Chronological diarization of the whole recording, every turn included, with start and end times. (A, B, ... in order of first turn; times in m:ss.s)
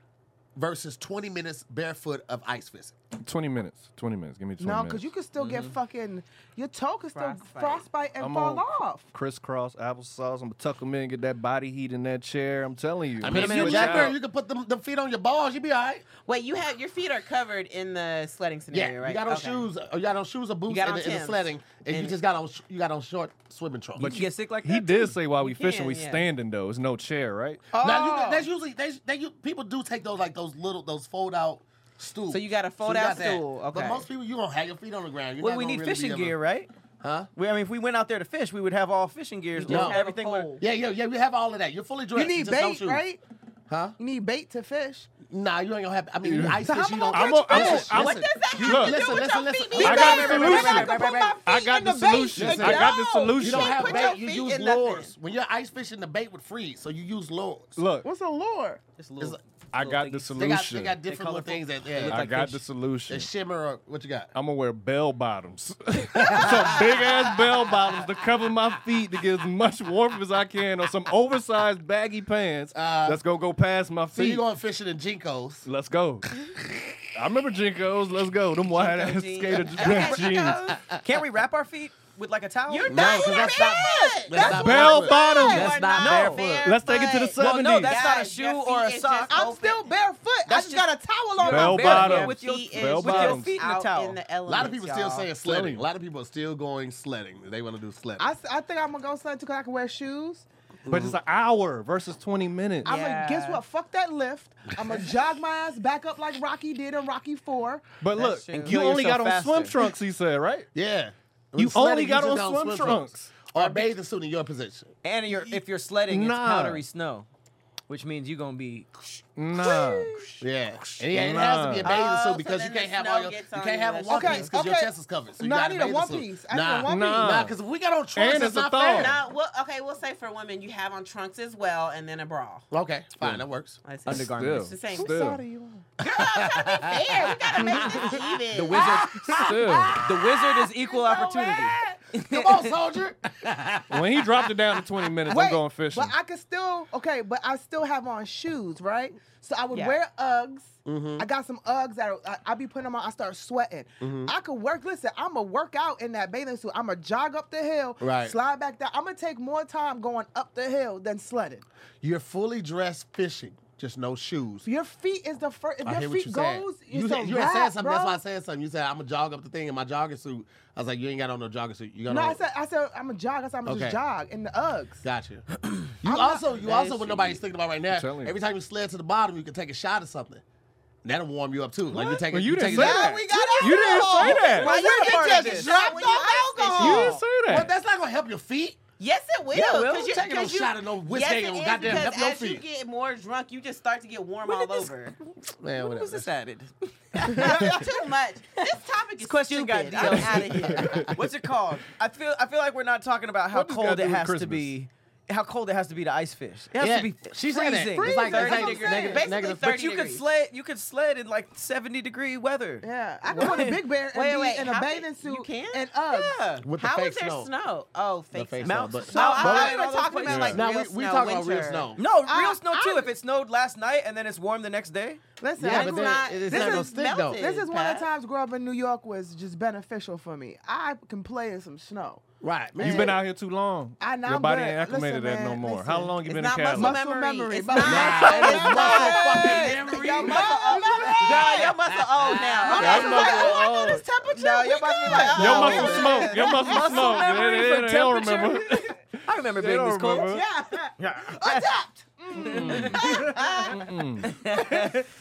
0:00.6-0:03.0 A
0:03.2-0:05.1 B
0:04.6-0:09.1 C
0:05.4-0:05.7 D
0:07.1-0:07.9 E
0:08.2-0:14.2 B
0:13.2-0:16.0 A
0:13.2-0:14.2 D
0:16.2-0:19.7 E
0:18.7-0:24.1 A
0:20.7-0:22.2 E
0:24.0-0:27.6 B
0:24.0-0:25.2 D
0:25.3-0:26.2 E
0:27.7-0:28.5 C
0:27.7-0:36.4 A
0:32.3-0:34.1 E
0:35.4-0:36.7 D
0:37.0-0:37.3 A
0:37.4-0:40.6 D
0:39.6-0:40.6 E
0:39.7-0:40.0 A
0:40.6-0:43.0 A
0:42.1-0:43.2 C
0:43.7-0:44.0 A
0:44.0-0:45.1 C
0:45.2-0:51.4 A
0:46.2-0:49.2 B
0:46.6-0:48.1 C
0:47.9-0:51.4 E
0:49.8-0:54.0 B
0:49.8-0:53.3 C
0:52.3-0:57.8 A
0:52.5-0:55.1 E
0:57.8-0:58.1 B
0:58.0-0:58.8 C
0:59.0-1:02.7 D
0:59.7-1:01.0 B
1:00.4-1:02.3 A
1:02.0-1:03.3 B
1:03.1-1:04.3 A
1:04.3-1:14.4 B
1:06.2-1:07.0 A
1:12.7-1:13.2 A
1:14.1-1:15.7 A
1:15.6-1:16.3 B
1:17.1-1:20.9 B
1:18.7-1:20.8 E
1:20.7-1:21.0 A
1:21.0-1:23.3 D
1:22.7-1:24.6 E
1:22.9-1:26.7 A
1:24.3-1:25.8 C
1:24.4-1:25.9 B
1:25.2-1:29.9 E
1:25.9-1:26.6 D
1:26.6-1:28.0 B
1:27.3-1:29.5 D
1:29.3-1:32.0 C
1:30.5-1:34.2 D
1:31.4-1:33.6 B
1:31.4-1:35.3 E
1:34.4-1:38.3 A
1:35.4-1:35.8 B
1:38.2-1:40.5 C
1:40.8-1:41.2 A
1:40.9-1:42.9 B
1:42.8-1:43.6 E
1:42.8-1:47.9 C
1:48.0-1:50.7 B
1:48.1-1:48.8 E
1:48.5-1:49.9 D
1:50.7-1:54.9 A
1:51.6-1:53.8 B
1:55.0-1:57.3 D
1:56.1-1:56.8 B
1:57.9-1:59.2 D
1:59.4-2:02.0 B
1:59.5-2:00.3 C
2:00.4-2:09.2 A
2:01.8-2:04.5 E
2:04.1-2:07.3 C
2:06.8-2:07.5 B
2:08.1-2:09.2 B
2:08.9-2:12.7 E
2:12.7-2:13.8 A
2:13.8-2:15.3 E
2:14.1-2:14.6 D
2:14.1-2:15.4 B
2:14.9-2:15.9 C
2:16.0-2:19.0 E
2:16.1-2:18.2 A
2:17.6-2:17.9 C
2:17.9-2:22.6 D
2:18.7-2:24.6 A
2:19.3-2:20.1 B
2:23.9-2:26.1 B
2:25.2-2:41.6 C
2:29.7-2:30.0 E
2:30.8-2:31.3 A
2:34.0-2:34.3 A
2:38.0-2:38.4 A
2:42.0-2:44.7 A
2:44.6-2:48.2 C
2:45.8-2:52.4 A
2:52.1-2:55.0 C
2:53.6-2:54.0 A
2:55.0-3:00.4 A
2:56.0-2:56.5 C
2:56.5-2:57.4 E
2:57.9-2:58.3 B
3:01.0-3:03.2 A
3:02.0-3:05.0 B
3:02.6-3:07.2 C
3:03.1-3:07.2 E
3:04.4-3:05.8 D
3:06.8-3:07.7 B
3:07.5-3:08.8 A
3:09.0-3:15.1 E
3:09.5-3:10.2 D
3:10.0-3:12.6 A
3:14.5-3:14.9 C
3:15.6-3:16.3 A
3:15.7-3:17.8 D
3:17.2-3:21.1 E
3:17.3-3:17.7 C
3:19.2-3:28.3 D
3:20.7-3:21.1 B
3:23.5-3:24.7 B
3:26.8-3:29.7 A
3:27.9-3:29.2 C
3:28.1-3:30.2 E
3:29.5-3:32.8 D
3:32.8-3:36.4 C
3:33.3-3:33.6 E
3:33.4-3:33.8 D
3:34.1-3:41.9 E
3:36.6-3:37.5 A
3:38.3-3:39.8 A
3:38.6-3:40.5 D
3:39.1-3:40.3 C
3:40.3-3:40.6 B
3:40.4-3:42.0 A
3:41.9-3:45.2 D
3:42.2-3:43.1 C
3:45.4-3:52.2 C
3:45.6-3:47.4 A
3:45.6-3:48.1 E
3:52.4-3:53.2 A
3:52.8-3:57.0 B
3:52.8-3:53.2 C
3:54.0-3:56.2 C
3:56.2-4:03.6 E
3:56.7-4:01.7 C
3:57.8-4:02.7 A
4:02.6-4:07.4 C
4:02.7-4:04.0 B
4:04.3-4:06.8 E
4:05.1-4:10.4 B
4:05.4-4:10.4 D
4:10.3-4:13.7 C
4:11.0-4:11.7 D
4:12.4-4:13.0 D
4:12.4-4:13.0 B
4:12.8-4:13.9 E
4:13.7-4:14.3 B
4:14.2-4:15.1 D